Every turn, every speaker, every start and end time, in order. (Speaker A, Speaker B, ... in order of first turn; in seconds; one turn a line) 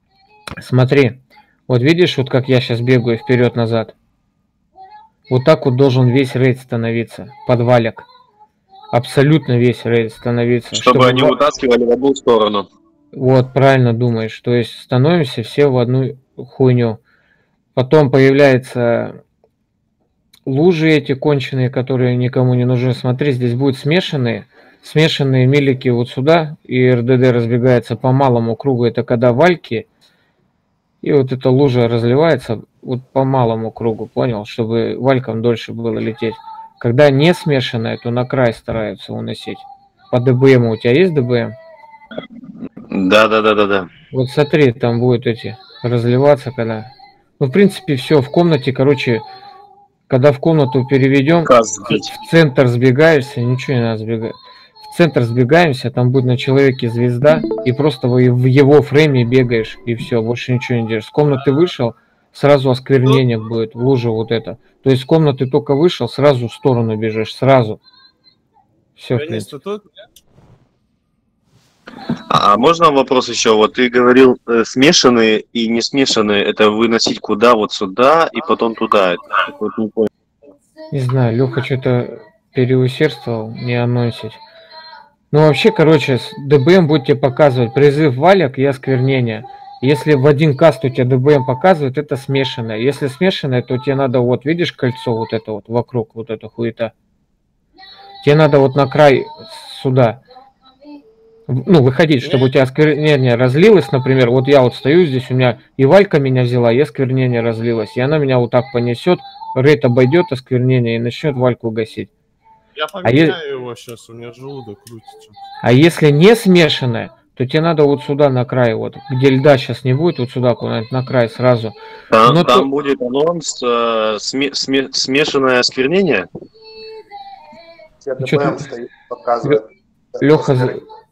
Speaker A: 0.6-4.0
Speaker A: 5.3-8.1
Speaker A: 8.9-11.3
Speaker B: 10.7-12.7
Speaker A: 13.1-17.0
Speaker A: 17.8-19.2
Speaker A: 20.5-29.9
Speaker A: 31.0-41.5
Speaker B: 42.9-43.9
Speaker A: 44.1-46.9
Speaker A: 47.4-49.2
Speaker A: 50.1-67.8
Speaker B: 51.5-52.1
Speaker A: 69.0-69.5
Speaker C: 69.1-69.9
Speaker B: 72.3-80.1
Speaker A: 80.9-84.4
Speaker A: 85.3-96.9
Speaker A: 98.2-100.2
Speaker A: 101.5-112.1
Speaker C: 112.8-115.4
Speaker A: 113.0-113.4
Speaker A: 115.6-122.7
Speaker B: 122.1-126.3
Speaker D: 128.0-130.7
Speaker A: 128.2-128.6
Speaker A: 130.2-130.8